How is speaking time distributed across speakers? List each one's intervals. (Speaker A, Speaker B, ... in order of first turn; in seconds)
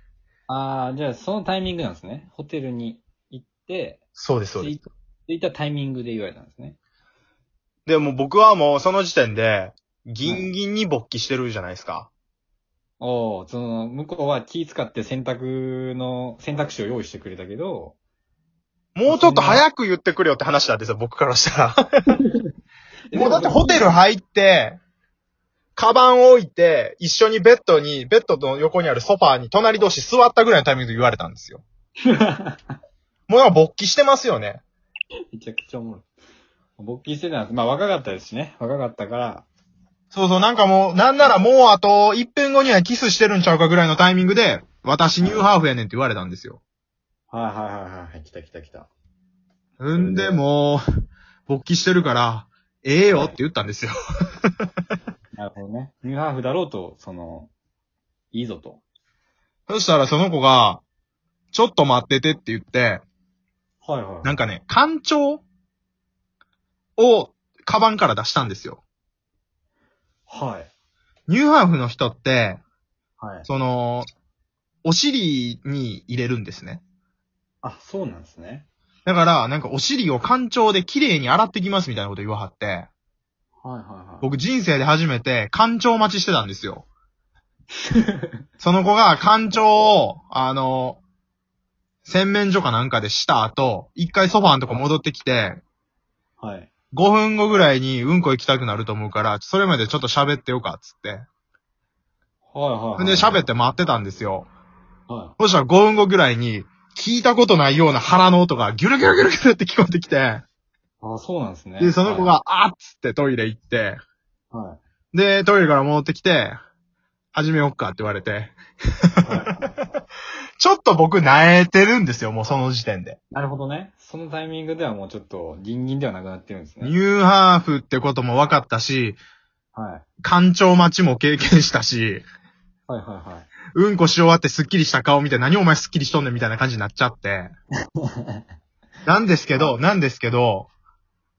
Speaker A: 0.5-4.0, 4.5-6.8, 13.0-17.9, 19.1-19.6, 23.1-23.9, 32.0-32.6, 35.3-36.0, 36.8-39.5, 47.3-48.9, 49.9-50.4, 53.1-53.4, 55.3-57.5, 58.3-58.8, 63.8-64.4, 70.3-70.7, 73.2-73.5, 77.6-78.7, 83.6-84.4, 87.9-88.3, 96.4-96.7, 102.5-103.4, 105.1-105.3, 111.0-112.4, 114.5-114.8, 119.2-119.6, 123.3-127.0, 129.7-130.1, 132.9-133.5, 138.0-138.4
Speaker B: 4.2-4.8, 7.8-12.1, 18.9-21.9, 23.1-24.8, 25.8-31.6, 33.3-34.6, 40.1-46.6, 49.8-50.8, 51.5-53.9, 59.7-60.8, 61.5-63.0, 64.2-65.4, 67.0-68.8, 71.3-72.6, 73.5-74.1, 74.8-76.8, 79.0-82.9, 84.2-86.8, 88.6-91.0, 92.0-95.6, 96.9-101.3, 103.0-104.5, 105.4-110.4, 111.8-114.0, 115.1-116.6, 117.3-118.6, 119.2-119.7, 120.6-123.2, 126.8-129.2, 130.2-132.2, 133.7-137.5, 139.1-140.7